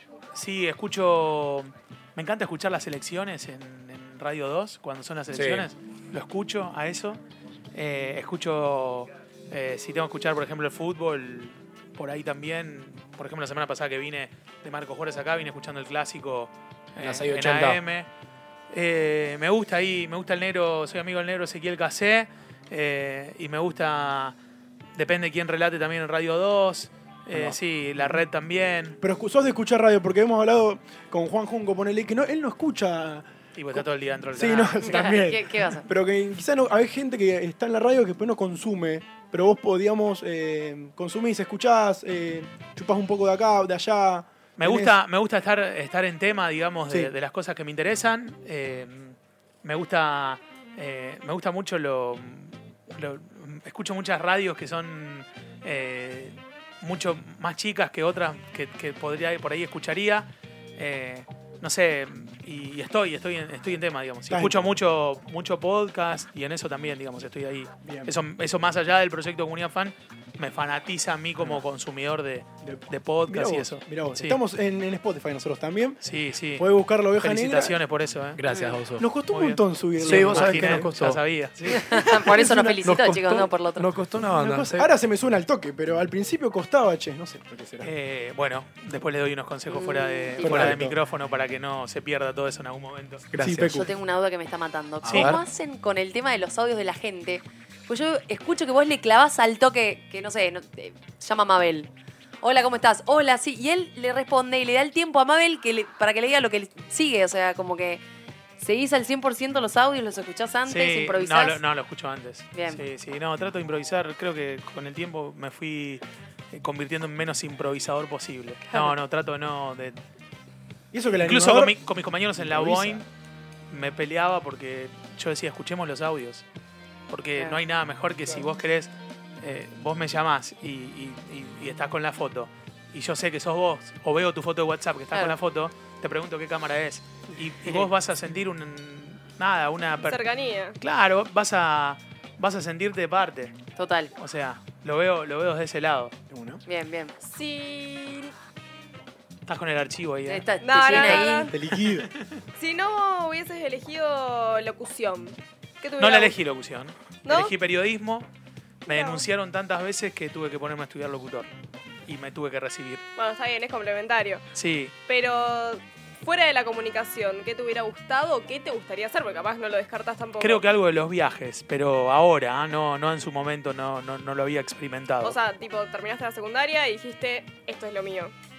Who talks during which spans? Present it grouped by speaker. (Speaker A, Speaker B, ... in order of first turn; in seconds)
Speaker A: 0.3-7.2, 7.7-18.1, 18.7-24.4, 24.9-29.0, 33.5-35.1, 44.6-74.4, 76.0-78.4, 79.3-81.8, 87.8-93.2, 95.1-95.3, 110.7-120.0, 121.2-123.0, 123.7-126.4, 127.1-140.3, 140.8-143.5, 144.2-146.1, 149.4-152.2, 156.0-158.3, 158.9-161.5, 162.1-163.0, 164.5-164.9, 170.4-175.4
Speaker B: 5.3-5.7, 17.0-17.8, 78.4-79.1, 80.0-81.2, 82.8-84.9, 93.3-93.8, 95.0-95.4
Speaker C: 27.3-28.2, 29.0-45.0, 64.3-64.7, 67.8-68.1, 71.4-71.6, 72.6-76.0, 76.5-77.8, 79.0-80.9, 81.6-82.9, 84.2-87.9, 90.4-91.0, 93.4-93.9, 120.9-121.8, 122.3-123.0, 146.3-146.6, 151.5-152.1
Speaker D: 34.8-35.9, 81.7-83.9, 89.7-90.8, 93.7-101.9, 102.4-108.0, 108.6-111.6, 112.5-112.8, 118.7-119.0, 143.8-144.1, 146.7-147.1, 150.3-151.5
Speaker E: 140.0-140.8, 147.2-148.3, 150.6-151.6, 152.6-156.3, 157.2-157.5, 158.9-159.3, 163.2-164.4, 165.1-170.6, 175.2-178.3